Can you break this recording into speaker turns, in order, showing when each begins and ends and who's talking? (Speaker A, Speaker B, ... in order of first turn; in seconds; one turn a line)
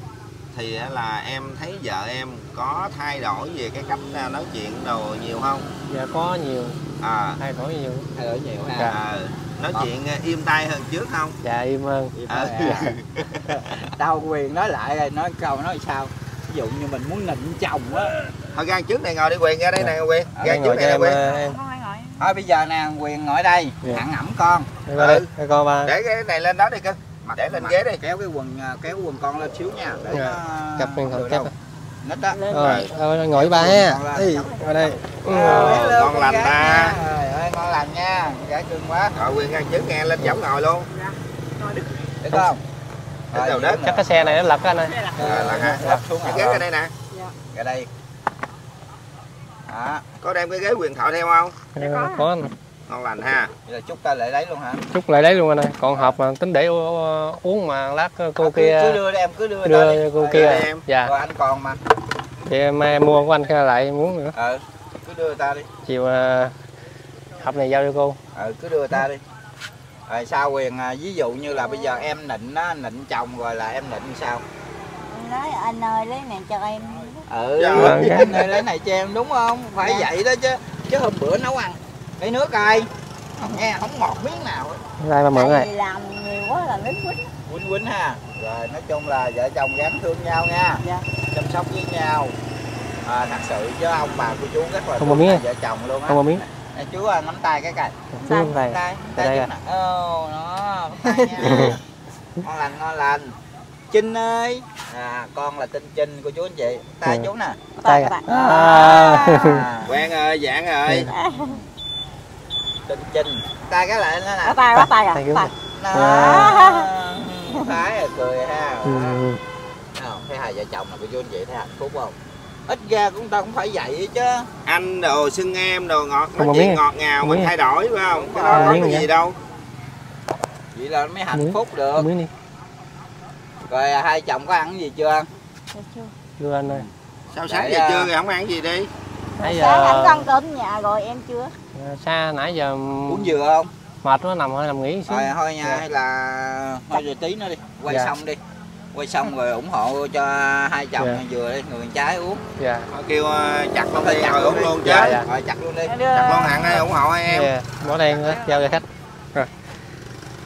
Speaker A: 0.5-5.7
Speaker B: 5.8-6.8
Speaker A: 7.0-7.4
Speaker B: 7.4-8.1
Speaker C: 8.1-9.0
Speaker A: 8.9-11.3
Speaker B: 11.4-12.9
Speaker C: 12.1-12.9
Speaker A: 12.3-13.8
Speaker C: 13.9-18.1
Speaker A: 18.5-21.2
Speaker C: 20.4-20.8
Speaker B: 20.4-21.6
Speaker D: 21.1-22.4
Speaker C: 22.2-24.8
Speaker B: 24.9-25.9
Speaker A: 24.9-25.3
Speaker A: 25.8-28.0
Speaker C: 27.2-31.5
Speaker B: 30.1-31.5
Speaker C: 32.0-32.4
Speaker D: 32.3-32.8
Speaker B: 32.5-35.9
Speaker A: 32.6-32.9
Speaker C: 33.3-34.3
Speaker D: 34.2-35.2
Speaker C: 35.2-39.2
Speaker A: 35.3-37.0
Speaker A: 39.1-40.9
Speaker D: 40.9-42.1
Speaker C: 42.2-42.6
Speaker A: 43.3-43.8
Speaker C: 43.3-44.5
Speaker B: 43.8-46.0
Speaker D: 44.8-45.3
Speaker C: 45.2-46.6
Speaker A: 45.2-46.9
Speaker C: 47.5-47.9
Speaker C: 49.7-50.0
Speaker A: 50.2-51.6
Speaker B: 51.8-52.5
Speaker D: 51.8-52.2
Speaker A: 52.9-53.5
Speaker C: 53.6-54.8
Speaker B: 54.9-59.0
Speaker C: 58.4-61.8
Speaker B: 59.6-61.1
Speaker A: 60.3-60.8
Speaker B: 62.4-64.3
Speaker C: 64.3-65.7
Speaker B: 65.8-66.5
Speaker B: 67.4-68.2
Speaker C: 68.3-69.2
Speaker C: 70.1-74.4
Speaker D: 71.7-72.0
Speaker D: 75.1-77.2
Speaker C: 77.3-84.8
Speaker A: 77.6-78.6
Speaker B: 77.7-78.3
Speaker D: 79.8-80.1
Speaker B: 85.0-85.7
Speaker D: 85.3-87.3
Speaker C: 87.5-92.3
Speaker C: 93.0-98.0
Speaker B: 95.0-95.4
Speaker B: 96.1-96.4
Speaker B: 98.1-99.5
Speaker D: 98.2-98.6
Speaker C: 98.6-101.8
Speaker B: 101.2-101.8
Speaker C: 102.4-103.3
Speaker C: 103.9-107.6
Speaker D: 107.8-109.5
Speaker B: 107.8-109.7
Speaker C: 108.7-110.0
Speaker A: 109.8-111.1
Speaker B: 110.9-111.1
Speaker D: 111.1-111.6
Speaker C: 111.3-111.7
Speaker C: 112.9-114.6
Speaker D: 114.4-116.9
Speaker B: 114.8-116.5
Speaker C: 115.8-119.2
Speaker B: 118.8-119.4
Speaker C: 120.0-122.2
Speaker C: 122.7-124.5
Speaker A: 124.7-129.4
Speaker B: 126.3-127.5
Speaker C: 128.1-128.9
Speaker B: 128.5-129.1
Speaker C: 130.7-132.1
Speaker B: 131.3-132.3
Speaker C: 133.7-135.3
Speaker D: 135.7-136.1
Speaker B: 136.4-136.8
Speaker A: 137.3-138.9
Speaker C: 137.5-138.1
Speaker D: 139.4-141.6
Speaker B: 139.4-140.3
Speaker B: 141.7-143.4
Speaker C: 143.1-143.7
Speaker B: 144.0-145.8
Speaker C: 145.1-148.4
Speaker C: 148.9-152.4
Speaker B: 152.6-152.9
Speaker A: 152.9-155.2
Speaker C: 153.9-156.0
Speaker B: 154.8-155.2
Speaker D: 155.8-157.0
Speaker A: 156.1-157.5
Speaker B: 157.3-159.5
Speaker C: 157.8-158.7
Speaker D: 158.2-158.8